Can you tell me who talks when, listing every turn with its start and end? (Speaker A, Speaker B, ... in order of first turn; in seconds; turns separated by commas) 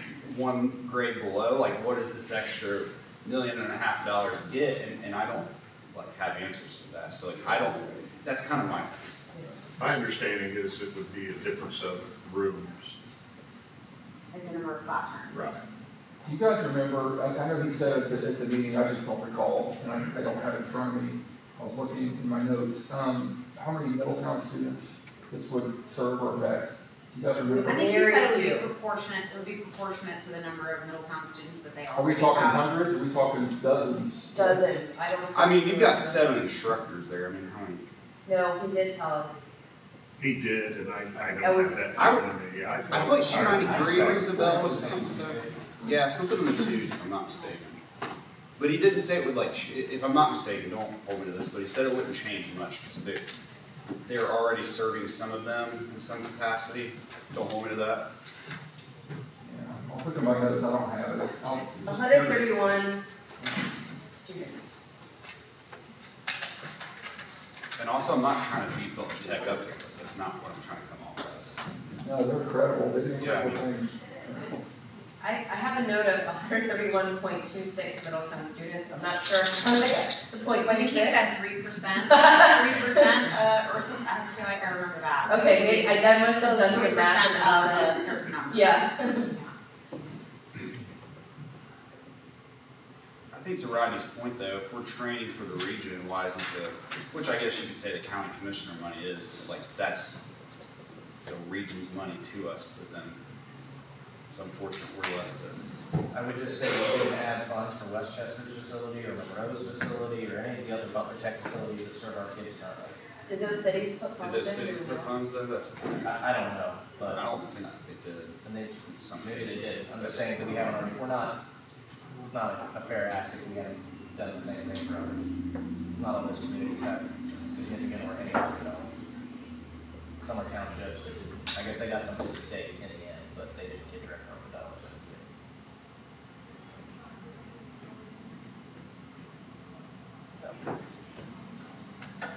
Speaker A: 0.2-8.9, Speaker B: 9.8-13.0, Speaker C: 14.3-15.6, Speaker B: 15.3-15.6, Speaker D: 16.2-27.8, Speaker E: 27.6-28.7, Speaker C: 27.6-32.7, Speaker D: 31.9-34.6, Speaker E: 34.3-36.4, Speaker A: 35.3-37.8, Speaker E: 38.3-39.5, Speaker B: 40.2-44.5, Speaker E: 41.4-42.2, Speaker A: 42.0-42.2, Speaker E: 42.9-44.1, Speaker A: 42.9-47.8, Speaker F: 43.3-45.5, Speaker A: 48.6-53.2, Speaker A: 54.0-58.1, Speaker D: 59.4-61.7, Speaker E: 61.8-63.0, Speaker A: 61.8-62.8, Speaker E: 64.1-64.8, Speaker A: 67.8-71.6, Speaker D: 72.0-74.4, Speaker A: 73.2-73.6, Speaker E: 75.2-81.3, Speaker C: 80.6-89.5, Speaker E: 82.0-83.1, Speaker E: 85.3-89.3, Speaker A: 93.3-100.2, Speaker A: 101.3-103.2, Speaker A: 104.3-105.6, Speaker F: 106.1-113.0, Speaker E: 113.3-115.1, Speaker A: 114.2-116.2, Speaker F: 116.0-117.2, Speaker A: 117.1-120.9, Speaker F: 118.4-121.4, Speaker F: 122.3-125.2, Speaker F: 126.0-128.9, Speaker F: 130.2-135.3